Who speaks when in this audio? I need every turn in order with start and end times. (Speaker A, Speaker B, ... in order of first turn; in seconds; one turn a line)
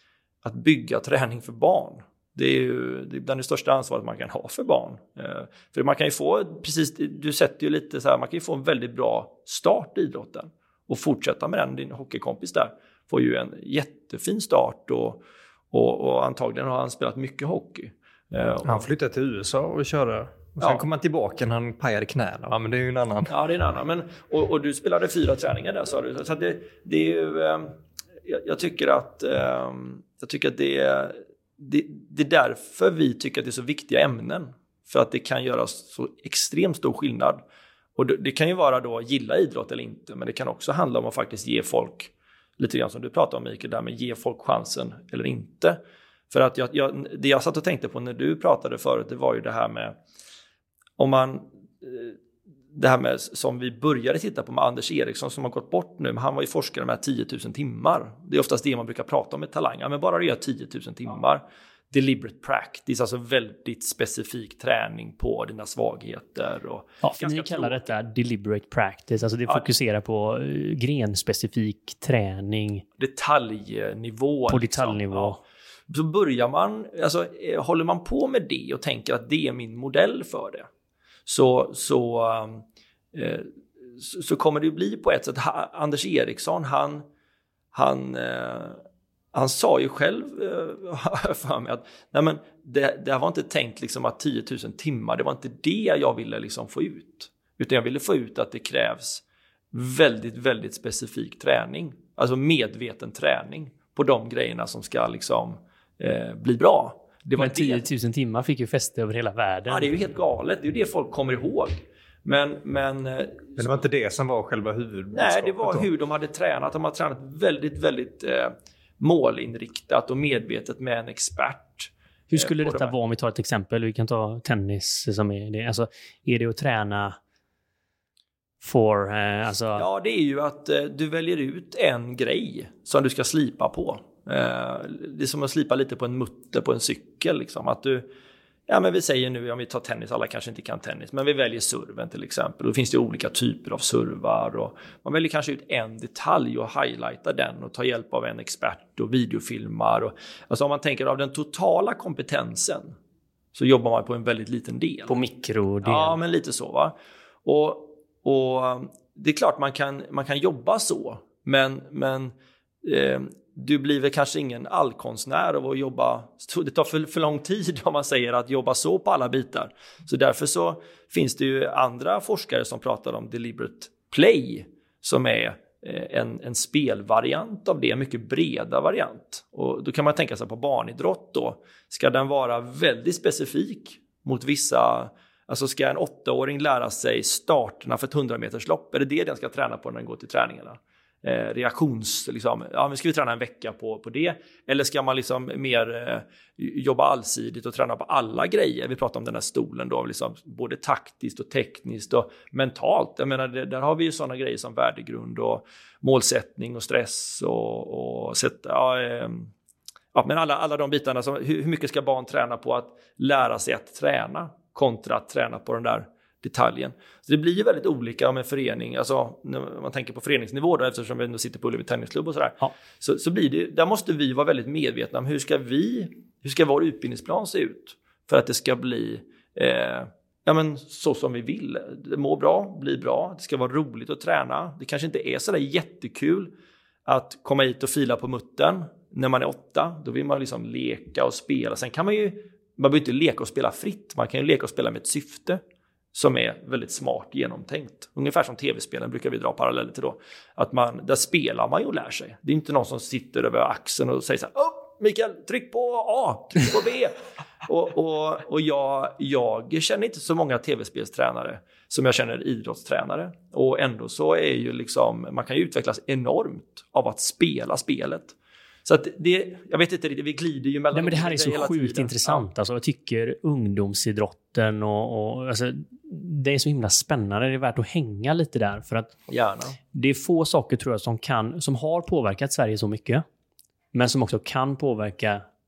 Speaker A: 0.4-18.9
Speaker B: 18.6-23.3
Speaker A: 23.3-37.4
Speaker A: 38.0-45.8
Speaker A: 46.3-50.0
Speaker A: 51.0-52.2
Speaker A: 52.7-67.9
Speaker C: 67.0-72.9
Speaker A: 73.0-75.4
Speaker C: 74.5-75.4
Speaker A: 75.9-80.7
Speaker A: 81.3-87.0
Speaker A: 87.7-88.8
Speaker A: 89.3-107.9
Speaker C: 107.4-109.9
Speaker A: 109.7-113.8
Speaker B: 113.6-115.9
Speaker A: 115.1-122.9
Speaker C: 122.3-127.2
Speaker C: 128.6-129.9
Speaker A: 129.8-138.1
Speaker A: 138.7-153.0
Speaker A: 153.5-155.2
Speaker C: 155.1-156.2
Speaker A: 155.8-209.5
Speaker A: 210.1-236.5
Speaker A: 237.1-245.6
Speaker A: 246.1-257.1
Speaker A: 257.7-272.4
Speaker C: 270.9-279.2
Speaker A: 279.3-279.8
Speaker C: 279.9-283.2
Speaker C: 283.9-285.4